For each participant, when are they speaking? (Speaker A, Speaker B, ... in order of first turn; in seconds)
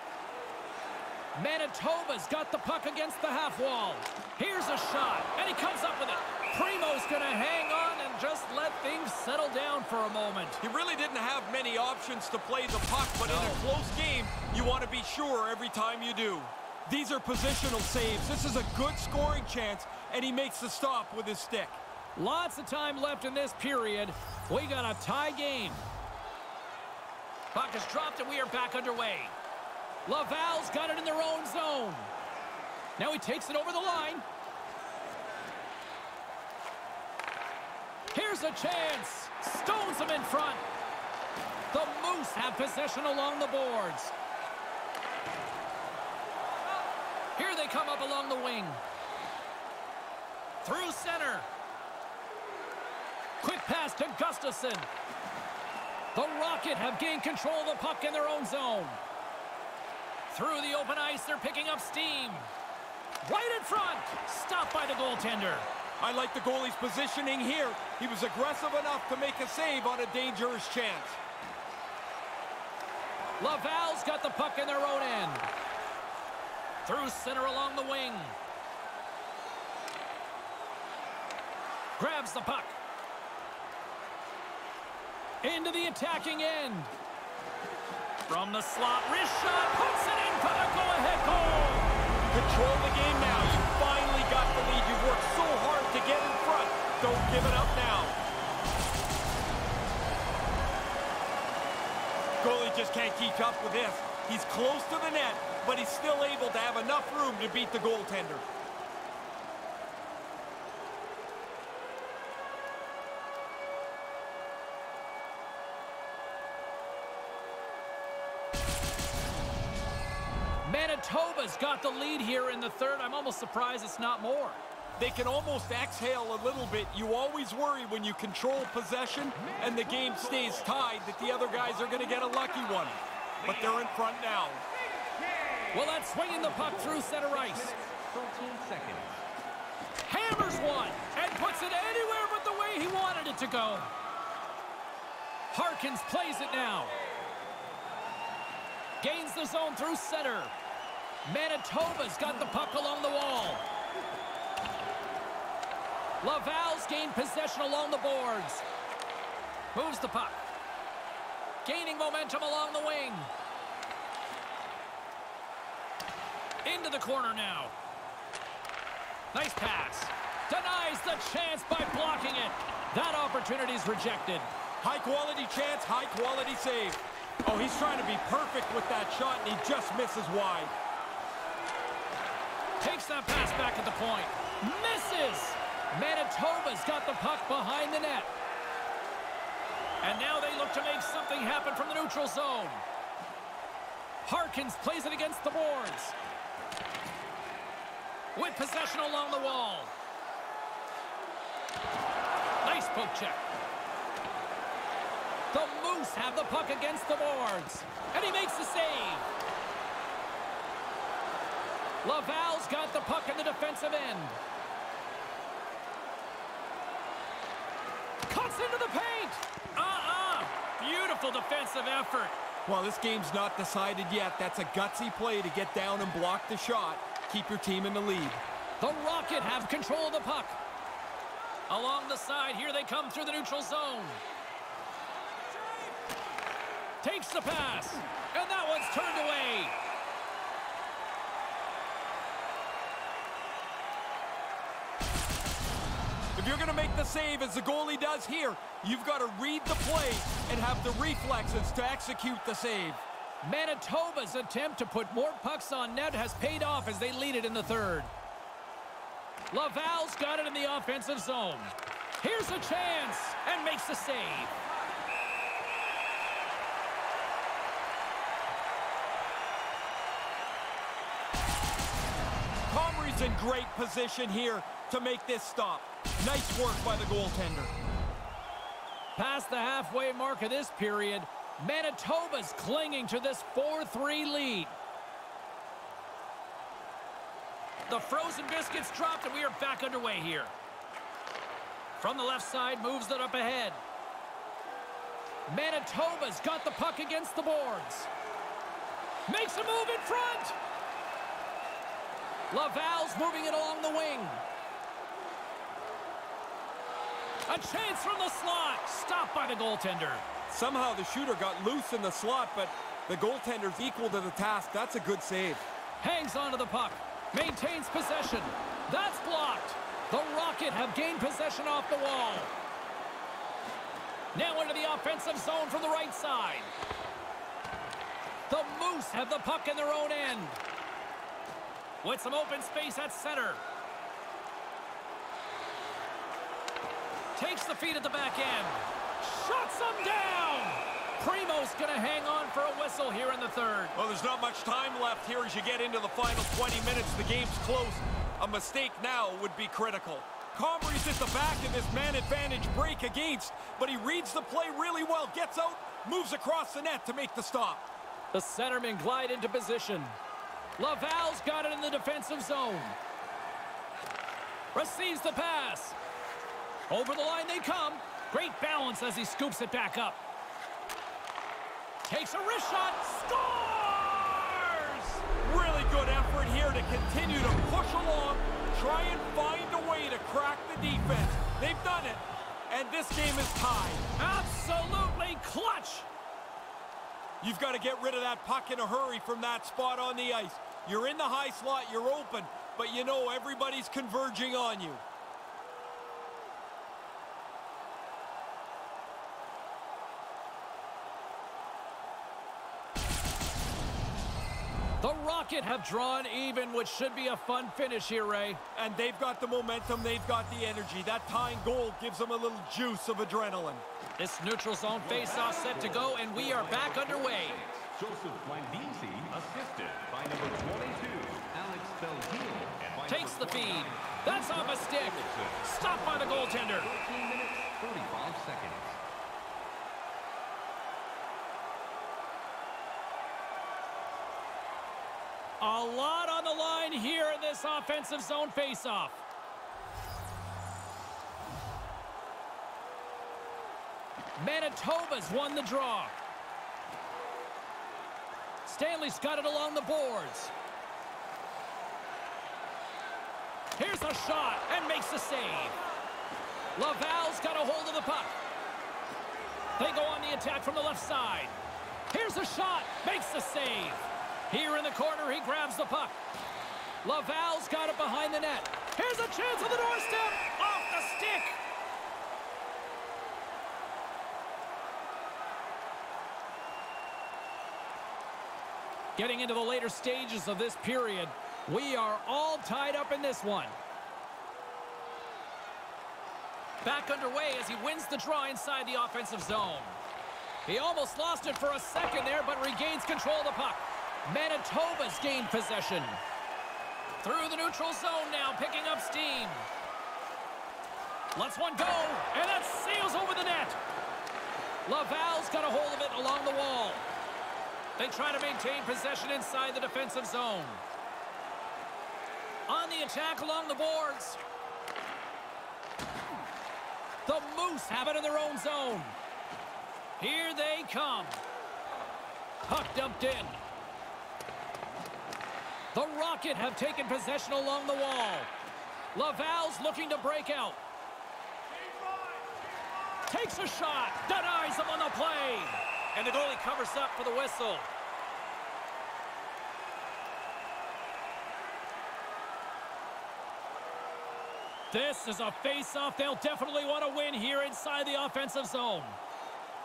Speaker A: 1.3-10.6, 13.2-13.6, 22.1-25.9, 27.5-29.3, 30.1-32.1, 33.0-34.2, 38.1-40.6, 41.7-44.1, 47.4-48.8, 50.6-51.5, 53.4-54.9, 56.1-59.0, 60.3-62.5, 63.2-65.7, 73.4-75.5, 76.8-78.3, 82.0-82.8, 85.4-86.9, 88.3-91.9, 120.6-124.6, 135.7-137.7, 140.1-143.9, 145.5-146.9, 149.0-150.5, 151.2-153.6, 156.2-158.6, 159.7-160.4, 161.6-163.3, 166.6-167.7, 169.3-174.5, 182.8-188.3, 190.0-192.8, 194.2-196.2, 198.3-199.9, 202.6-203.4, 205.5-209.2, 212.0-214.4, 218.2-222.3, 228.8-230.6, 231.7-234.2, 237.0-239.7, 253.4-258.1, 259.5-264.5, 279.1-284.7, 287.9-290.5, 292.0-293.8, 295.5-298.1, 299.3-300.6, 302.5-304.4, 307.5-310.2, 316.0-322.5, 324.3-326.7, 328.5-330.6, 332.0-333.6, 337.3-343.9, 358.3-360.2, 360.8-363.0, 364.7-366.0, 366.9-370.2, 372.0-375.2, 384.2-386.1, 405.0-408.6, 414.2-417.6, 423.1-426.9, 435.6-439.2, 444.4-446.1, 448.6-450.5, 453.8-455.8, 456.8-458.3, 459.8-461.6, 462.1-466.1, 467.0-471.6, 479.1-483.7, 486.8-490.0, 490.6-496.2, 497.2-499.7, 501.3-503.8, 504.9-507.0, 508.0-510.8, 512.7-514.4, 517.2-519.1, 520.2-521.4, 522.6-523.5, 525.9-528.5, 529.1-530.8, 533.3-537.9, 544.9-549.2
Speaker B: 10.6-21.8, 66.0-71.2, 92.3-98.2, 102.4-108.4, 125.0-134.6, 174.8-180.7, 222.7-228.4, 246.3-253.0, 272.7-277.7, 310.5-315.6, 343.9-357.8, 375.4-384.1, 387.4-395.0, 408.7-413.8
Speaker C: 129.3-131.0, 135.2-139.2, 415.0-429.0